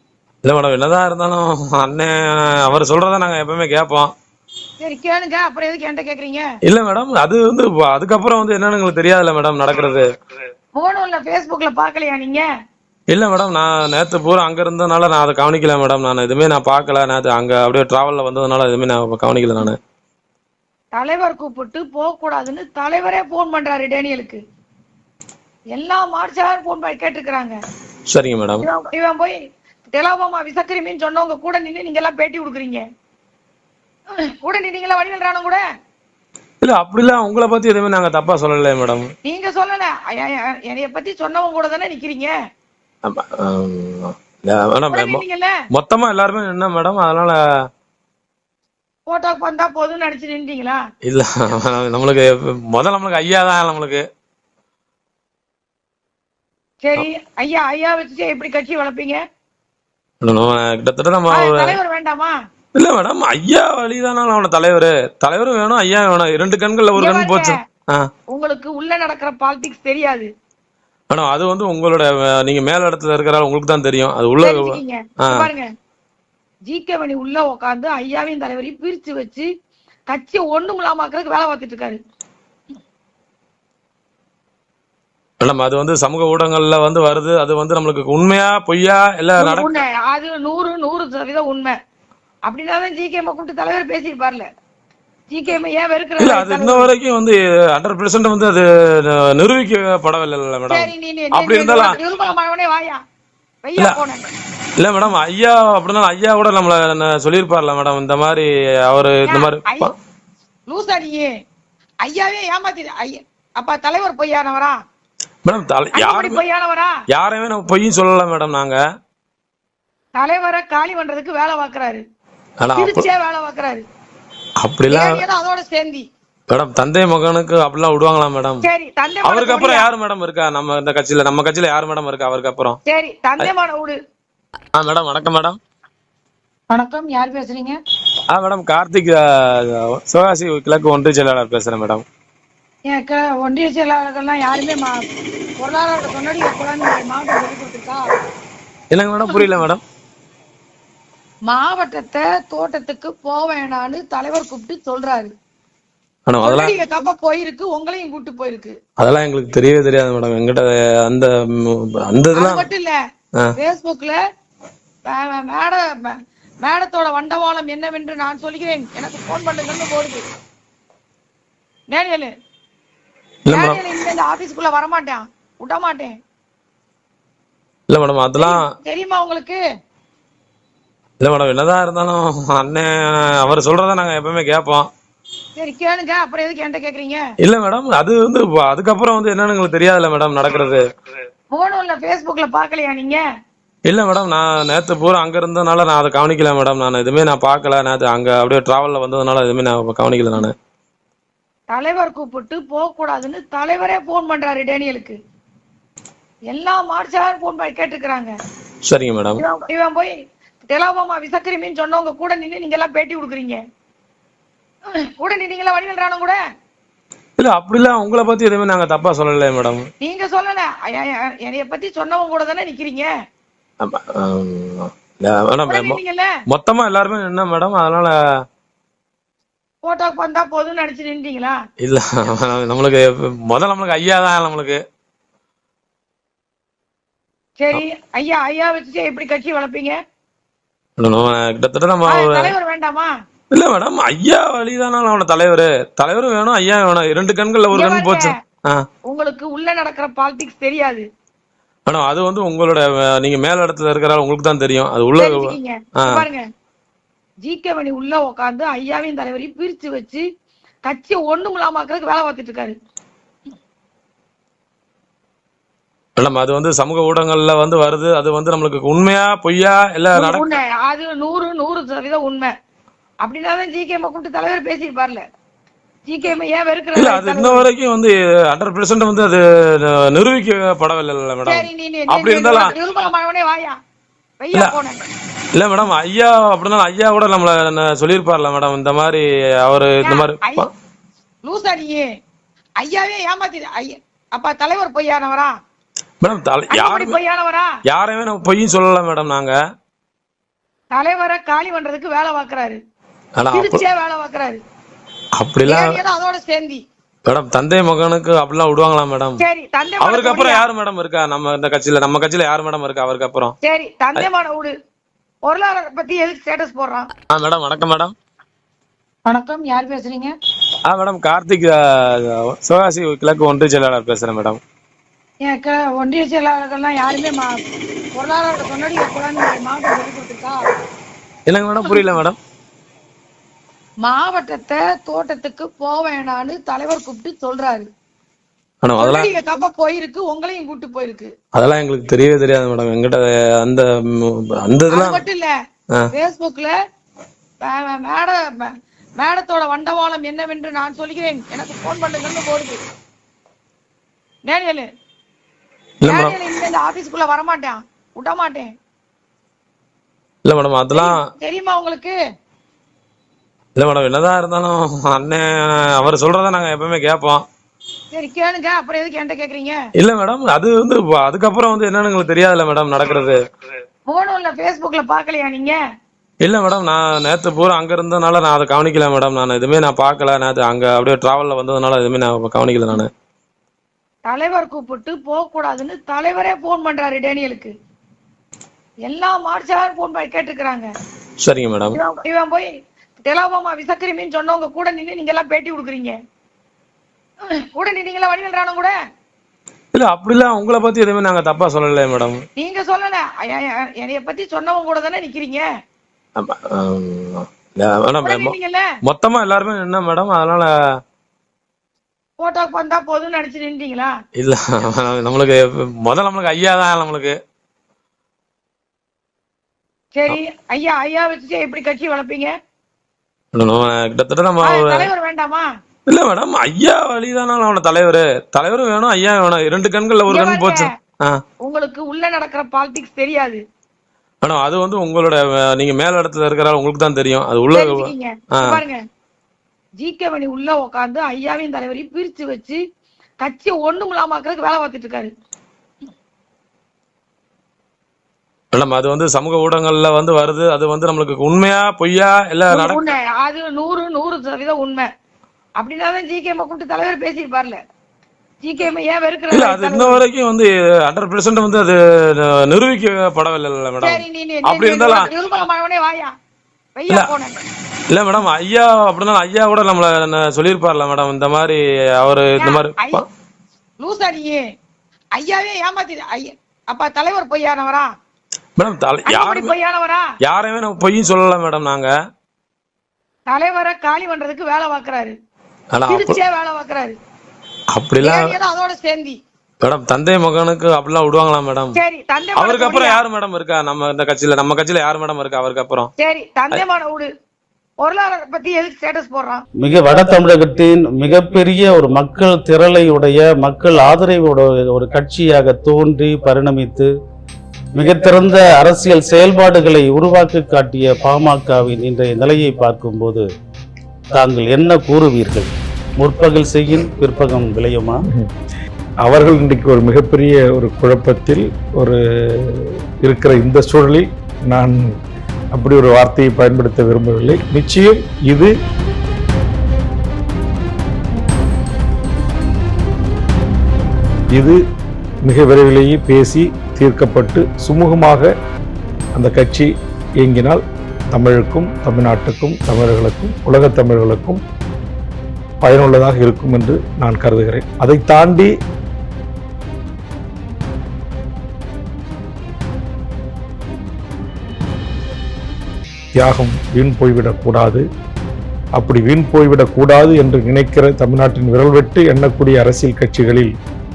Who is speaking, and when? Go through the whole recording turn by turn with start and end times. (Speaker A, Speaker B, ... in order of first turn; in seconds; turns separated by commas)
Speaker A: 0.4-4.1, Speaker B: 4.8-6.5, Speaker A: 6.7-10.1, Speaker B: 10.7-12.4, Speaker A: 13.1-19.8, Speaker B: 20.9-24.4, Speaker B: 25.7-27.5, Speaker A: 28.1-28.6, Speaker B: 28.6-29.4, Speaker B: 29.9-32.8, Speaker B: 34.4-35.6, Speaker A: 36.6-39.1, Speaker B: 39.2-42.3, Speaker A: 43.0-47.4, Speaker B: 44.9-45.5, Speaker B: 49.1-50.8, Speaker A: 51.0-54.0, Speaker B: 56.8-59.2, Speaker A: 60.2-61.8, Speaker B: 61.3-62.3, Speaker A: 62.7-68.1, Speaker B: 67.0-67.5, Speaker B: 68.3-70.3, Speaker A: 71.1-75.5, Speaker B: 74.4-75.7, Speaker B: 76.7-79.5, Speaker B: 80.1-82.0, Speaker A: 85.4-89.7, Speaker B: 89.4-91.7, Speaker B: 92.5-94.4, Speaker B: 95.3-96.9, Speaker A: 96.2-102.0, Speaker B: 100.7-103.0, Speaker B: 103.6-104.2, Speaker A: 104.8-109.9, Speaker B: 109.3-109.9, Speaker B: 110.7-111.3, Speaker B: 112.0-114.7, Speaker A: 115.4-116.4, Speaker B: 115.9-116.9, Speaker A: 117.1-118.8, Speaker B: 120.2-122.0, Speaker A: 122.6-123.0, Speaker B: 122.8-123.8, Speaker A: 124.6-125.2, Speaker B: 124.9-126.0, Speaker A: 126.5-128.6, Speaker B: 128.6-129.9, Speaker A: 129.2-132.8, Speaker B: 132.8-133.9, Speaker A: 134.8-135.6, Speaker B: 136.7-137.8, Speaker A: 138.3-142.0, Speaker B: 142.9-144.9, Speaker B: 145.6-148.0, Speaker A: 148.9-149.8, Speaker B: 151.5-155.3, Speaker A: 156.3-156.7, Speaker B: 156.4-158.7, Speaker A: 159.0-162.7, Speaker B: 162.3-162.9, Speaker B: 163.6-164.2, Speaker B: 165.1-170.2, Speaker B: 171.9-172.3, Speaker A: 173.4-173.8, Speaker B: 173.5-176.1, Speaker A: 177.9-178.6, Speaker B: 178.4-179.6, Speaker A: 181.2-184.9, Speaker B: 185.6-187.2, Speaker A: 187.4-190.8, Speaker B: 191.5-193.2, Speaker A: 193.8-200.5, Speaker B: 201.7-205.2, Speaker B: 206.5-208.3, Speaker A: 208.8-209.4, Speaker B: 209.4-210.1, Speaker B: 210.7-213.6, Speaker B: 215.0-216.4, Speaker A: 217.4-219.9, Speaker B: 220.0-223.1, Speaker A: 223.8-228.1, Speaker B: 225.7-226.3, Speaker B: 229.8-231.6, Speaker A: 231.8-234.8, Speaker B: 237.6-240.0, Speaker A: 241.0-242.5, Speaker B: 242.1-243.1, Speaker A: 243.5-248.8, Speaker B: 247.7-248.3, Speaker B: 249.1-251.0, Speaker A: 251.8-256.2, Speaker B: 255.2-256.4, Speaker B: 257.4-260.2, Speaker B: 260.9-262.7, Speaker A: 266.2-270.4, Speaker B: 270.1-272.5, Speaker B: 273.2-275.2, Speaker B: 276.1-277.6, Speaker A: 276.9-282.7, Speaker B: 281.4-283.7, Speaker B: 284.4-285.0, Speaker A: 285.5-290.7, Speaker B: 290.0-290.7, Speaker B: 291.4-292.0, Speaker B: 292.8-295.5, Speaker A: 296.2-297.2, Speaker B: 296.7-297.7, Speaker A: 297.9-299.5, Speaker B: 300.9-302.8, Speaker A: 303.4-303.8, Speaker B: 303.5-304.6, Speaker A: 305.4-305.9, Speaker B: 305.6-306.8, Speaker A: 307.2-309.4, Speaker B: 309.4-310.6, Speaker A: 310.0-313.5, Speaker B: 313.6-314.7, Speaker B: 315.4-317.1, Speaker A: 317.3-318.1, Speaker B: 319.3-320.3, Speaker A: 320.9-324.6, Speaker B: 325.4-327.5, Speaker B: 328.1-330.6, Speaker A: 331.5-332.4, Speaker B: 334.0-337.8, Speaker A: 338.8-339.3, Speaker B: 339.0-341.3, Speaker A: 341.5-345.2, Speaker B: 344.9-345.5, Speaker B: 346.1-346.7, Speaker B: 347.6-352.8, Speaker B: 354.5-354.9, Speaker A: 356.0-356.3, Speaker B: 356.0-358.7, Speaker A: 360.4-361.1, Speaker B: 360.9-362.1, Speaker A: 363.8-367.4, Speaker B: 368.1-369.8, Speaker A: 370.0-373.4, Speaker B: 374.1-375.8, Speaker A: 376.4-383.1, Speaker B: 384.3-387.7, Speaker B: 389.1-390.9, Speaker A: 391.4-392.0, Speaker B: 391.9-392.7, Speaker B: 393.2-396.1, Speaker B: 397.7-398.9, Speaker A: 399.9-402.4, Speaker B: 402.6-405.6, Speaker A: 406.4-410.7, Speaker B: 408.2-408.9, Speaker B: 412.4-414.1, Speaker A: 414.4-417.3, Speaker B: 420.1-422.5, Speaker A: 423.5-425.1, Speaker B: 424.6-425.6, Speaker A: 426.1-431.4, Speaker B: 430.3-430.8, Speaker B: 431.6-433.6, Speaker A: 434.4-438.8, Speaker B: 437.7-439.0, Speaker B: 440.0-442.8, Speaker B: 443.4-445.3, Speaker A: 448.7-453.0, Speaker B: 452.7-455.1, Speaker B: 455.8-457.8, Speaker B: 458.6-460.2, Speaker A: 459.5-465.3, Speaker B: 464.0-466.3, Speaker B: 466.9-467.6, Speaker A: 468.1-473.2, Speaker B: 472.6-473.2, Speaker B: 474.0-474.6, Speaker B: 475.4-478.1, Speaker A: 478.8-479.7, Speaker B: 479.3-480.2, Speaker A: 480.4-482.1, Speaker B: 483.5-485.3, Speaker A: 485.9-486.4, Speaker B: 486.1-487.1, Speaker A: 487.9-488.6, Speaker B: 488.2-489.4, Speaker A: 489.8-492.0, Speaker B: 491.9-493.2, Speaker A: 492.6-496.1, Speaker B: 496.2-497.3, Speaker B: 498.0-499.6, Speaker C: 499.8-507.1, Speaker C: 507.9-513.4, Speaker C: 514.3-515.7, Speaker C: 516.2-518.1, Speaker D: 519.2-525.1, Speaker D: 525.7-528.7, Speaker D: 534.5-534.8, Speaker D: 535.4-538.5, Speaker D: 539.4-539.9, Speaker D: 540.4-540.8, Speaker D: 541.3-544.6, Speaker D: 545.8-548.7, Speaker D: 556.4-558.0, Speaker D: 559.0-563.7